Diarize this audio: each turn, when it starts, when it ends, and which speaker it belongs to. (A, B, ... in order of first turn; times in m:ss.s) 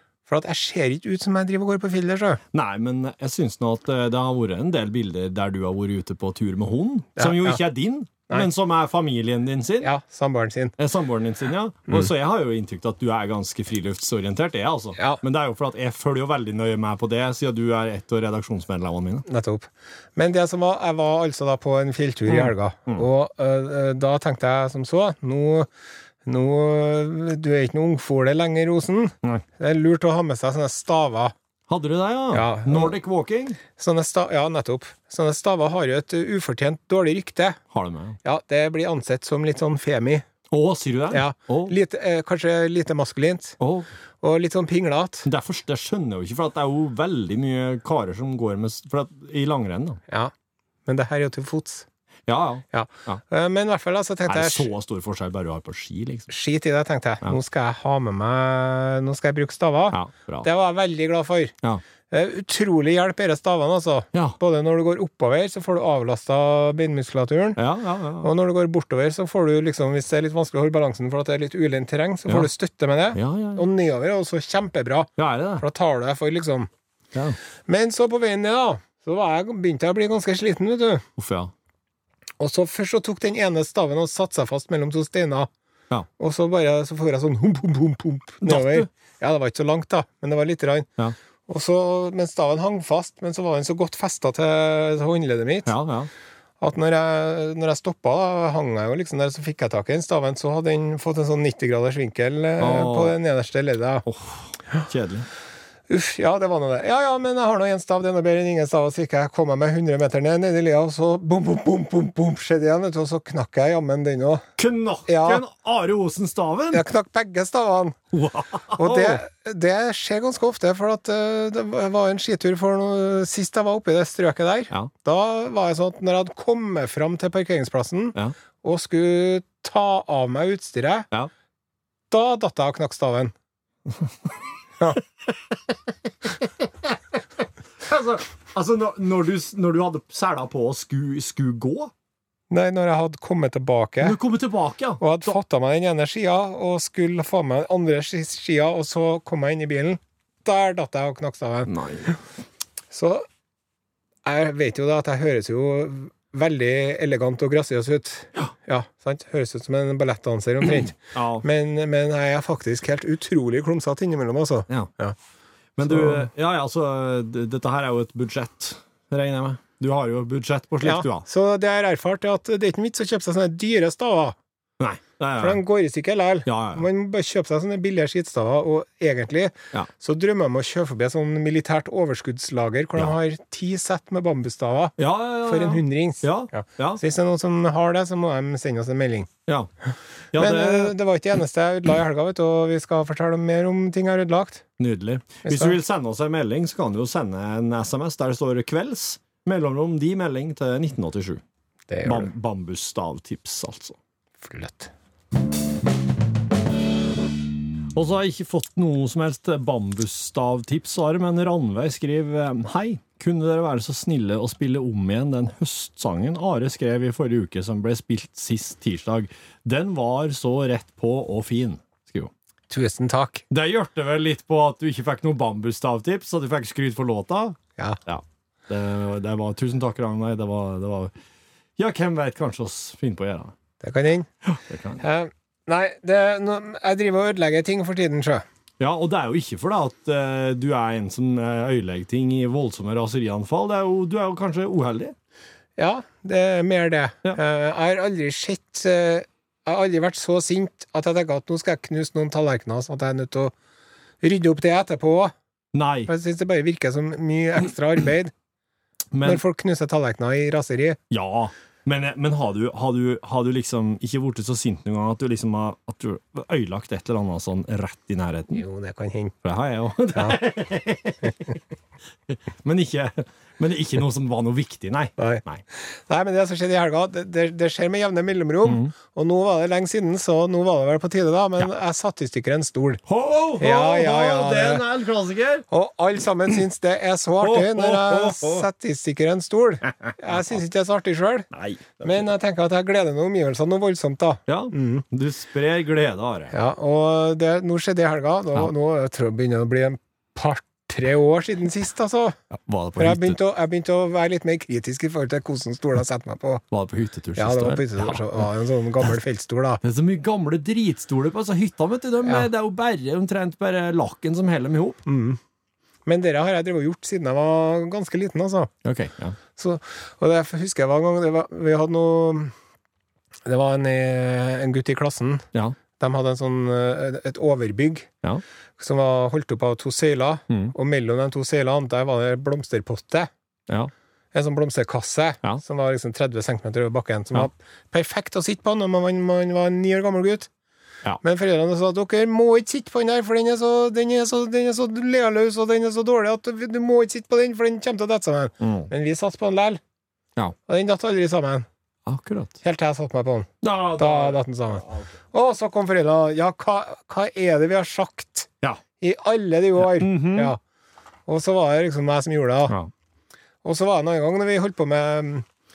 0:00.3-0:02.4 A
0:02.5-0:09.9 B
0:07.2-0:07.6 A
0:09.8-0:10.7 A
0:10.8-0:19.3 B
0:19.3-0:25.7 A
0:22.3-0:23.1 B
0:26.3-0:31.3 A
0:31.7-0:33.6 B
0:32.3-0:33.0 A
0:33.8-0:37.6 A
0:37.7-0:38.2 B
0:38.2-0:40.2 A
0:40.5-0:41.8 B
0:41.1-0:43.6 A
0:43.6-0:43.9 B
0:44.2-0:45.3 A
0:45.2-0:50.0 B
0:50.9-0:51.9 A
0:52.3-0:53.2 B
0:52.7-0:54.7 A
0:54.3-0:56.3 B
0:56.3-1:01.6 A
0:59.9-1:00.5 B
1:02.1-1:07.6 A
1:07.6-1:08.3 B
1:08.2-1:16.7 A
1:13.1-1:13.6 B
1:15.2-1:15.6 B
1:17.7-1:21.1 A
1:21.2-1:21.5 B
1:22.4-1:25.5 A
1:26.2-1:30.9 A
1:28.4-1:28.9 B
1:31.5-1:35.7 A
1:35.7-1:36.1 B
1:36.6-1:44.1 A
1:42.6-1:43.2 B
1:44.1-1:45.3 B
1:45.9-1:54.5 A
1:54.6-1:56.8 B
1:55.1-1:55.4 A
1:56.7-1:58.0 A
1:58.1-1:59.2 B
1:58.8-2:11.1 A
2:12.1-2:13.3 A
2:17.8-2:21.9 B
2:22.5-2:24.2 A
2:24.0-2:25.4 B
2:25.0-2:31.7 A
2:31.7-2:32.1 B
2:32.9-2:33.2 A
2:34.2-2:45.2 A
2:41.0-2:41.4 B
2:45.8-2:51.3 B
2:45.8-2:46.3 A
2:50.8-2:54.4 A
2:54.8-2:55.6 B
2:55.4-3:09.3 A
2:56.5-2:56.8 B
3:05.0-3:07.0 B
3:10.3-3:11.0 B
3:10.4-3:14.6 A
3:14.8-3:21.4 B
3:15.4-3:15.8 A
3:21.9-3:22.3 A
3:22.0-3:24.0 B
3:24.4-3:24.9 A
3:27.9-3:42.3 B
3:42.7-3:43.4 A
3:43.5-3:51.1 B
3:51.8-3:53.5 B
3:53.8-3:54.3 A
3:54.5-3:55.0 B
3:55.0-3:58.4 A
3:58.8-4:05.2 B
4:05.8-4:13.5 A
4:14.2-4:15.3 A
4:15.7-4:16.1 B
4:16.1-4:18.3 A
4:19.1-4:19.4 B
4:19.2-4:21.0 A
4:21.1-4:28.6 B
4:28.5-4:29.4 A
4:29.4-4:31.5 B
4:32.3-4:35.6 B
4:35.2-4:43.0 A
4:38.7-4:38.9 B
4:43.1-4:45.7 B
4:43.6-4:44.8 A
4:45.7-4:51.5 A
4:47.4-4:48.7 B
4:49.9-4:50.6 B
4:51.5-4:52.3 B
4:52.0-4:55.0 A
4:54.5-4:56.5 B
4:56.5-5:02.4 A
5:02.5-5:03.4 B
5:03.0-5:06.6 A
5:06.7-5:08.5 B
5:07.4-5:09.8 A
5:09.8-5:15.0 B
5:15.1-5:15.4 A
5:16.1-5:18.7 A
5:18.8-5:19.4 B
5:19.6-5:22.5 A
5:23.4-5:28.1 A
5:28.8-5:33.3 A
5:34.3-5:40.5 A
5:41.2-5:49.8 A
5:48.6-5:48.9 B
5:50.7-5:51.7 A
5:52.1-5:52.6 B
5:52.6-5:58.5 A
5:53.6-5:55.1 B
5:59.0-6:00.6 A
5:59.8-6:00.6 B
6:01.3-6:02.8 A
6:03.6-6:05.5 A